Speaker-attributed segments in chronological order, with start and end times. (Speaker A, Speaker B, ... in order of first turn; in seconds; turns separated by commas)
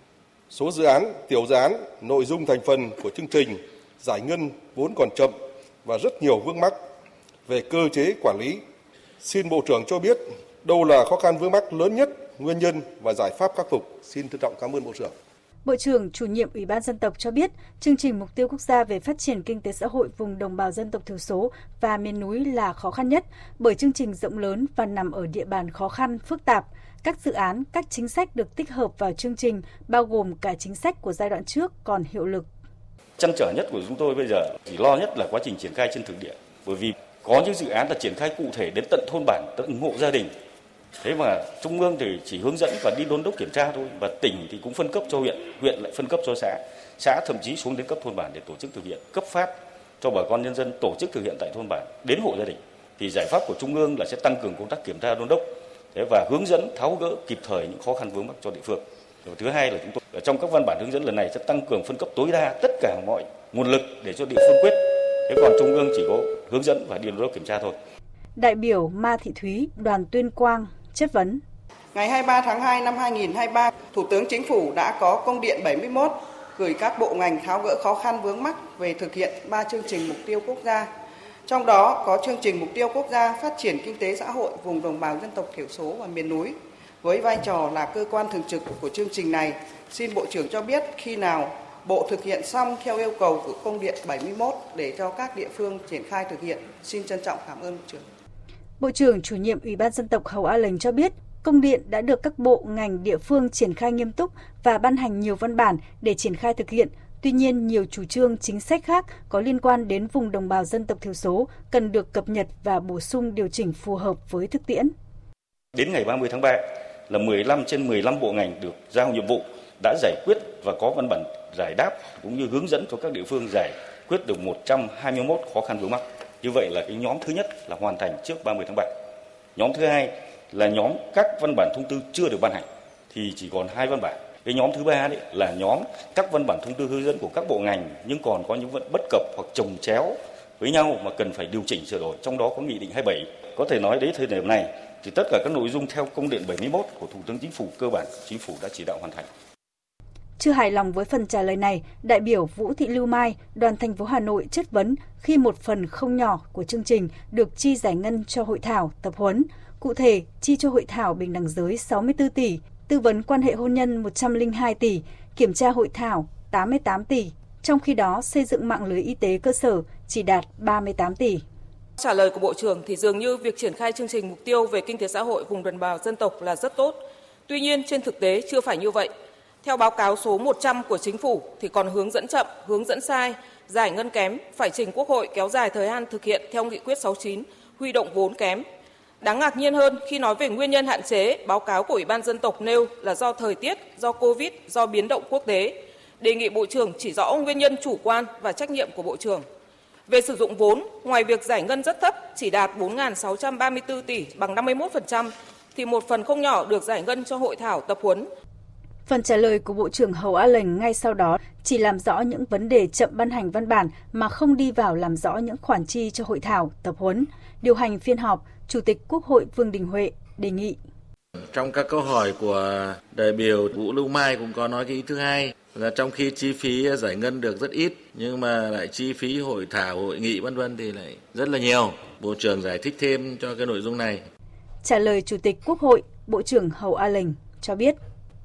Speaker A: 0.5-6.8, Speaker A: 7.5-8.6, Speaker A: 9.2-15.1, Speaker B: 15.7-32.5, Speaker C: 33.2-40.3, Speaker C: 41.0-67.8, Speaker B: 68.4-71.4, Speaker D: 71.9-80.9, Speaker D: 81.5-98.0, Speaker B: 98.8-114.9, Speaker C: 115.7-128.9, Speaker C: 129.6-149.3, Speaker B: 150.4-171.4, Speaker E: 172.0-179.1, Speaker E: 179.6-188.7, Speaker E: 189.2-199.5, Speaker E: 200.1-208.3, Speaker B: 209.1-220.8, Speaker F: 221.4-234.2, Speaker B: 234.8-238.0